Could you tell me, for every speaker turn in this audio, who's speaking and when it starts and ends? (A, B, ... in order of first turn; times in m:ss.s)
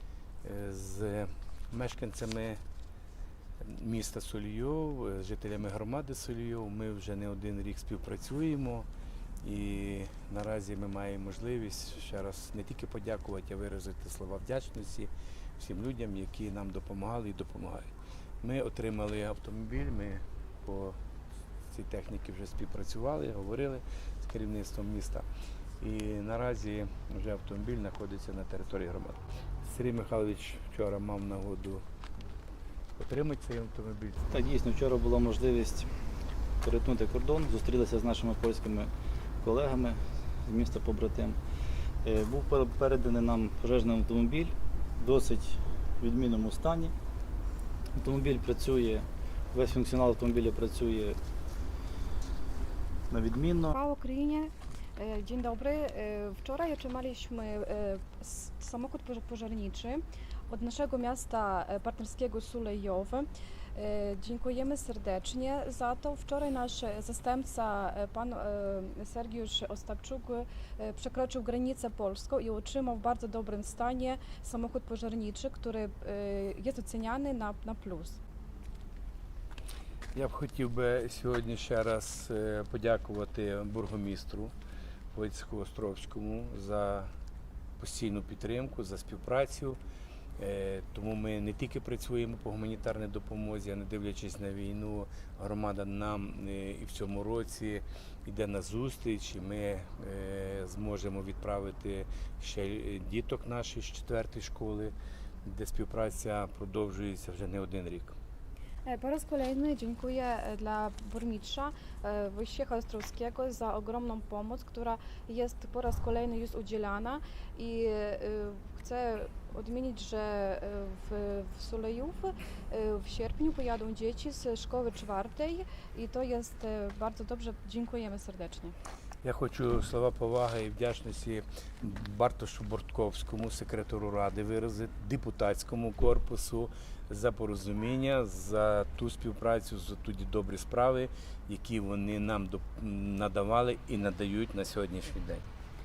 0:00.4-0:02.6 A
0:03.6-0:08.9 A
0:09.4-0:17.9 A
0:18.4-0:21.0 A
0:21.7-0:25.2 A
0:25.8-0:31.8 A
0:33.0-0:34.3 A
0:34.3-0:35.9 B
0:36.6-0:41.4 B
0:42.0-0:46.9 B
0:48.0-0:51.2 B
0:53.1-0:53.8 B
0:53.7-1:18.2 C
1:20.2-1:24.5 A
1:25.1-1:27.1 A
1:27.8-1:29.8 A
1:30.4-1:44.9 A
1:45.4-1:48.2 A
1:48.9-2:08.8 C
2:09.2-2:25.4 A